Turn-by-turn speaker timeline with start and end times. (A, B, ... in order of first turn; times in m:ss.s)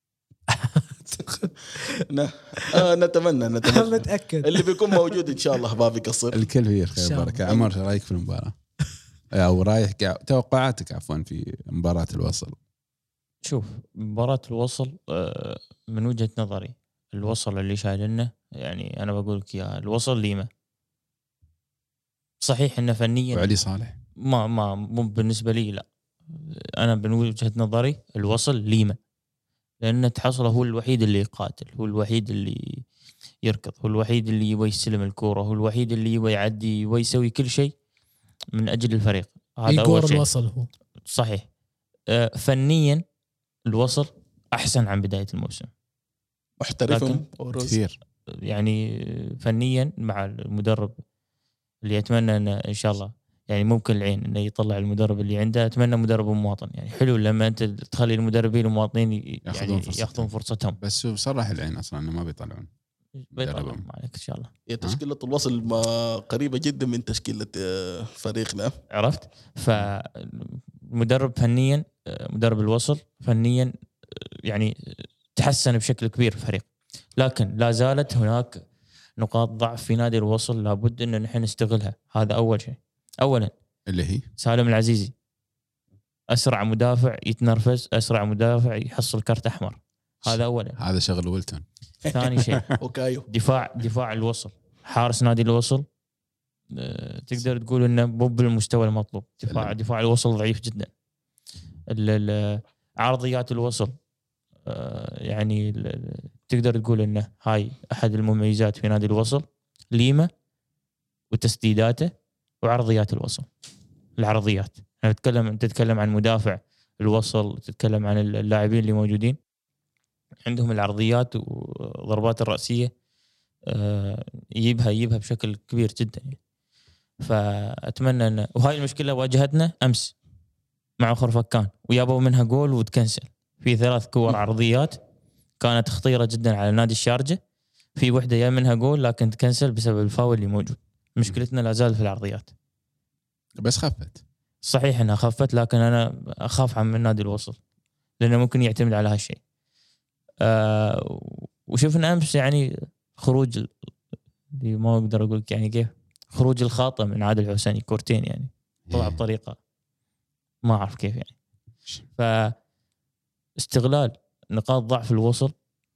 0:00.5-0:01.8 A
0:02.1-0:06.4 B
0:03.6-0:05.1 A
0:06.3-0:08.5 C
0:07.0-0:07.6 A
0:07.4-0:07.7 B
0:09.3-0:12.6 C
0:13.4-0:20.5 D
0:22.4-0:23.6 D
0:23.3-0:24.0 C
0:24.2-0:29.0 D
0:29.8-0:32.8 D
0:33.4-0:37.7 D
0:38.5-0:40.2 D
0:39.7-0:40.7 A
0:41.1-0:41.4 D
0:42.1-0:43.0 D
0:43.7-0:45.7 D
0:46.6-0:47.8 B
0:46.9-0:47.2 D
0:47.6-0:48.0 C
0:48.4-0:50.9 D
0:51.8-1:00.8 D
0:59.4-1:02.7 C
1:03.2-1:04.5 D
1:03.3-1:03.8 C
1:04.7-1:08.7 B
1:08.9-1:14.7 D
1:15.4-1:18.6 D
1:19.2-1:23.5 D
1:23.9-1:24.2 C
1:24.4-1:25.1 D
1:26.3-1:30.8 D
1:30.2-1:31.6 C
1:32.0-1:33.2 B
1:32.1-1:32.6 D
1:33.3-1:35.8 D
1:36.7-1:40.9 D
1:39.4-1:39.7 C
1:41.9-1:43.9 D
1:44.6-1:50.3 D
1:51.3-1:52.1 D
1:52.6-1:53.5 D
1:54.2-1:59.4 D
2:00.4-2:02.9 D
2:03.7-2:06.4 D
2:07.2-2:10.1 D
2:11.0-2:15.0 D
2:15.6-2:17.4 D
2:18.0-2:22.5 D
2:23.6-2:24.2 C
2:24.6-2:27.6 D
2:28.2-2:29.4 D
2:30.4-2:33.7 D
2:34.6-2:39.6 D
2:38.9-2:39.2 C
2:40.6-2:41.3 D
2:42.2-2:42.5 D
2:43.6-2:45.5 D